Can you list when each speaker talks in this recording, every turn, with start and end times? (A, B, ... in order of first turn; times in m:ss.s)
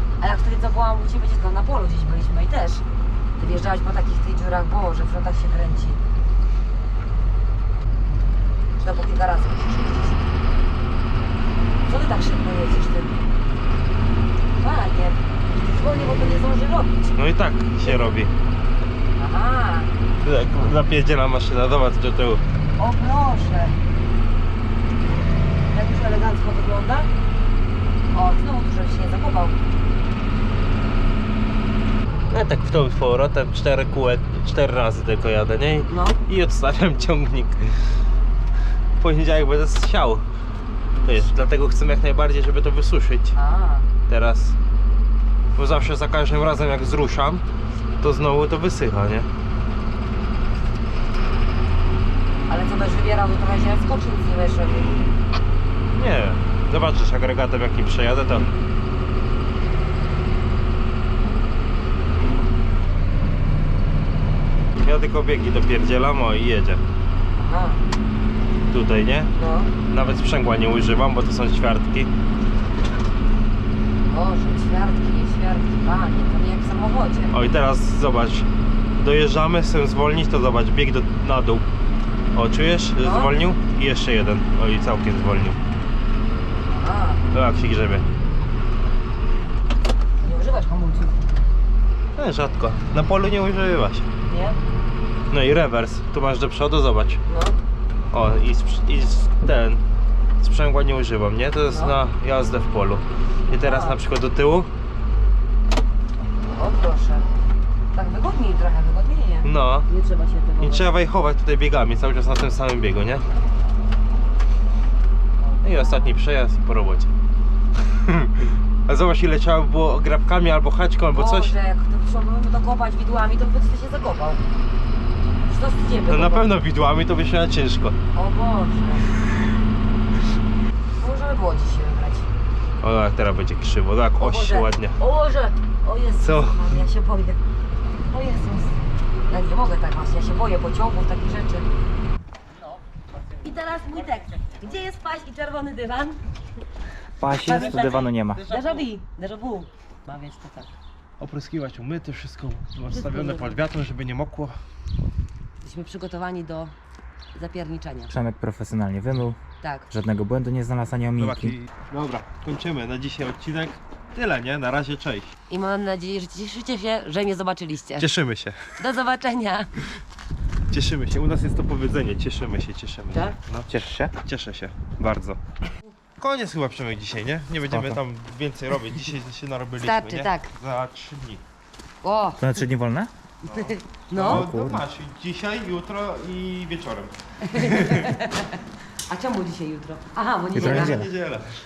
0:00.2-0:02.8 A
0:03.4-0:06.0 A
0:08.8-0:10.2 A
0:11.8-0:13.1 A
0:14.6-0:16.9 A
0:17.2-0:18.3 B
0:19.2-0:19.9 A
0:20.2-0:22.4 B
0:22.8-0:23.7 A
0:25.7-0:27.1 A
0:28.1-0:29.6 A
0:32.3-0:37.7 B
0:35.9-0:36.2 A
0:39.0-0:40.2 B
0:41.0-0:43.4 B
0:43.3-0:43.9 A
0:44.1-0:44.6 B
0:45.6-0:47.4 B
0:48.0-0:49.3 B
0:52.5-0:55.1 A
0:55.9-0:58.5 B
1:04.8-1:06.8 B
1:07.4-1:07.8 A
1:08.7-1:09.3 B
1:09.4-1:09.7 A
1:09.9-1:12.1 B
1:14.0-1:17.4 A
1:17.3-1:21.6 B
1:22.3-1:25.6 B
1:23.0-1:23.3 A
1:26.7-1:27.2 A
1:27.3-1:28.0 B
1:30.2-1:31.2 A
1:32.2-1:34.1 B
1:34.3-1:34.6 A
1:35.3-1:37.2 B
1:37.3-1:37.6 A
1:38.1-1:39.8 B
1:40.4-1:44.7 B
1:43.6-1:44.0 A
1:46.5-1:47.2 A
1:47.9-1:50.9 A
1:49.4-1:49.9 B
1:50.6-1:53.2 B
1:55.4-1:56.2 A
1:55.6-1:57.1 B
1:58.0-2:01.5 B
2:01.1-2:04.4 A
2:05.5-2:06.6 A
2:06.1-2:07.9 B
2:08.1-2:09.1 A
2:11.0-2:12.3 A
2:12.8-2:15.0 B
2:14.2-2:17.4 A
2:16.2-2:16.7 B
2:18.1-2:21.7 A
2:23.4-2:26.2 A
2:27.2-2:28.4 C
2:27.4-2:28.0 A
2:27.4-2:28.8 B
2:28.5-2:30.7 A
2:31.2-2:34.6 B
2:32.9-2:33.6 A
2:35.6-2:36.7 A
2:37.3-2:38.1 A
2:38.1-2:39.4 C
2:39.6-2:39.9 A
2:39.9-2:41.6 C
2:41.2-2:45.3 B
2:45.5-2:48.1 A
2:48.0-2:48.7 B
2:48.8-2:49.7 A
2:50.7-2:55.4 B
2:53.7-2:54.1 C
2:56.2-3:01.4 B
2:57.7-2:58.0 C
2:59.8-3:00.5 A
3:02.0-3:02.4 A
3:02.4-3:03.1 C
3:03.4-3:08.2 B
3:03.5-3:04.5 A
3:04.2-3:04.8 C
3:07.4-3:11.0 A
3:10.5-3:11.1 C
3:10.5-3:11.5 B